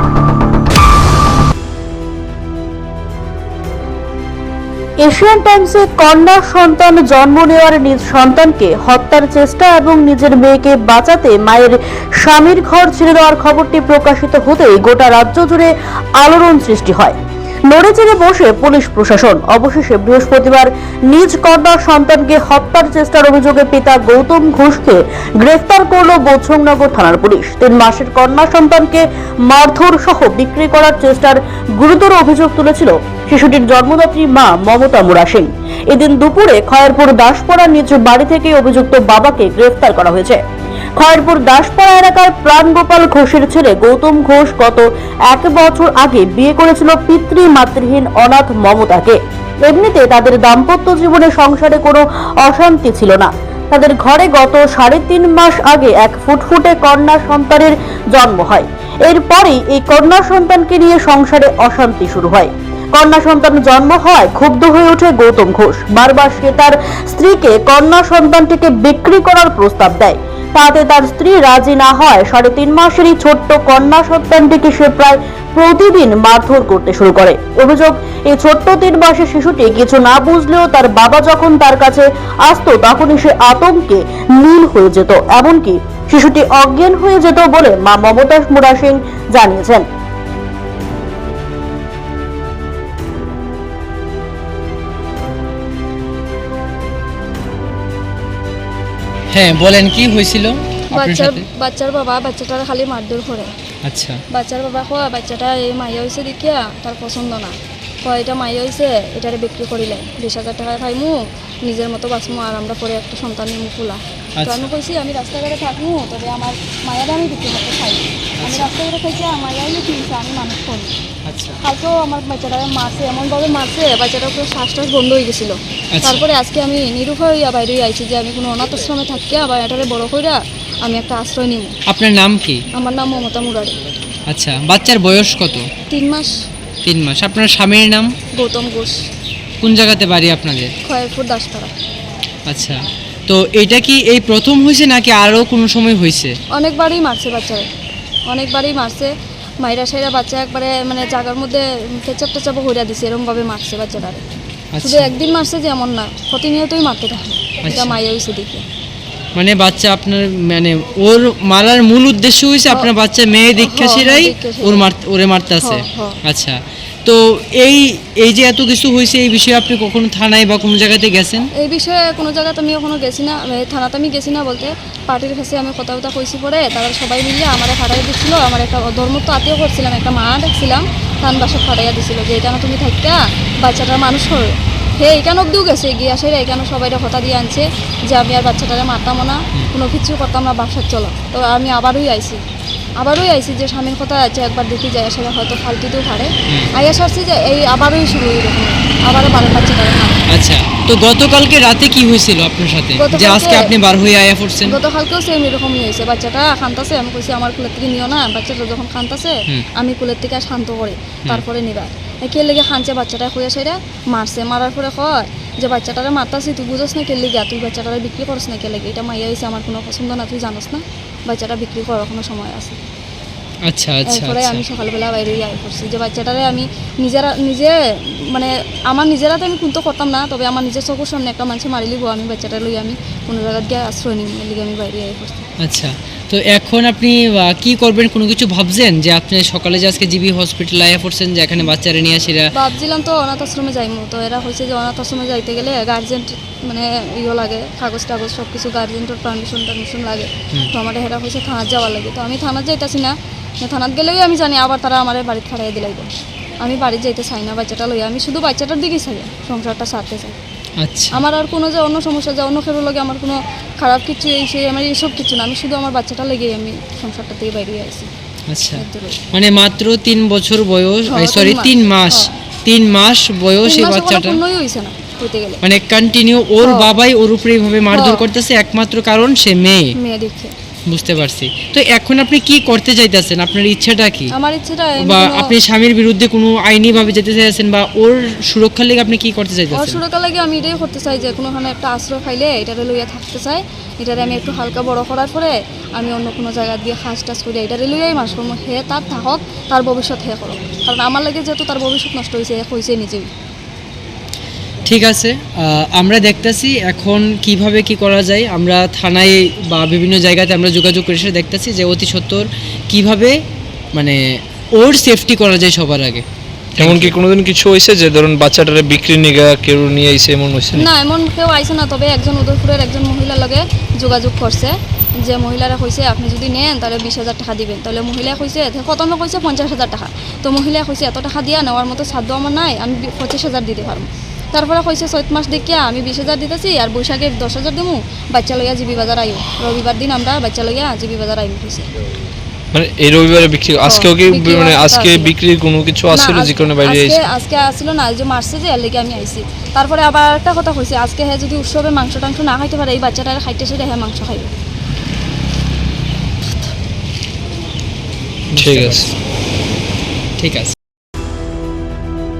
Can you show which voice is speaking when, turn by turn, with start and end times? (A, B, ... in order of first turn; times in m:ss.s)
0:05.0-0:17.2 A
0:17.7-0:40.4 A
0:41.0-1:29.8 A
1:39.3-1:41.4 B
1:40.9-1:43.5 C
1:43.8-1:44.2 B
1:44.3-2:01.0 C
1:54.4-1:54.7 B
1:58.4-1:58.7 B
2:01.2-2:01.6 B
2:01.6-2:11.8 C
2:05.9-2:06.2 B
2:11.9-2:12.6 B
2:12.7-2:13.8 C
2:14.3-2:15.7 B
2:15.9-2:16.3 C
2:16.8-2:18.2 B
2:18.3-2:19.0 C
2:19.6-2:20.7 B
2:20.8-2:21.7 C
2:22.5-2:26.4 B
2:26.5-2:27.7 C
2:28.3-2:34.2 C
2:34.7-2:35.1 B
2:34.8-2:38.6 C
2:37.6-2:37.9 B
2:39.3-2:51.5 B
2:43.6-2:44.9 C
2:45.6-2:46.2 C
2:51.6-3:12.4 C
3:13.0-3:20.2 C
3:20.3-3:24.8 B
3:23.0-3:23.7 C
3:24.6-3:42.8 C
3:43.7-3:44.6 B
3:44.0-3:55.5 C
3:55.6-4:02.5 B
4:02.5-4:16.1 C
4:16.6-4:20.4 C
4:20.8-4:21.2 B
4:21.1-4:28.1 C
4:28.5-4:34.4 B
4:28.7-4:29.2 C
4:31.1-4:32.3 C
4:33.6-4:35.6 C
4:35.6-4:40.0 B
4:36.6-4:36.9 C
4:37.9-4:38.3 C
4:39.9-4:40.5 C
4:40.9-4:44.3 B
4:44.3-4:45.6 C
4:45.0-4:50.0 B
4:49.7-5:03.3 C
5:04.9-5:13.4 B
5:14.8-5:16.2 B
5:16.8-5:17.1 B
5:16.8-5:20.9 D
5:20.7-5:41.9 C
5:42.7-5:47.2 D
5:43.8-5:45.3 C
5:46.1-5:54.5 C
5:58.5-5:59.1 D
5:58.6-5:59.0 B
6:00.4-6:00.8 B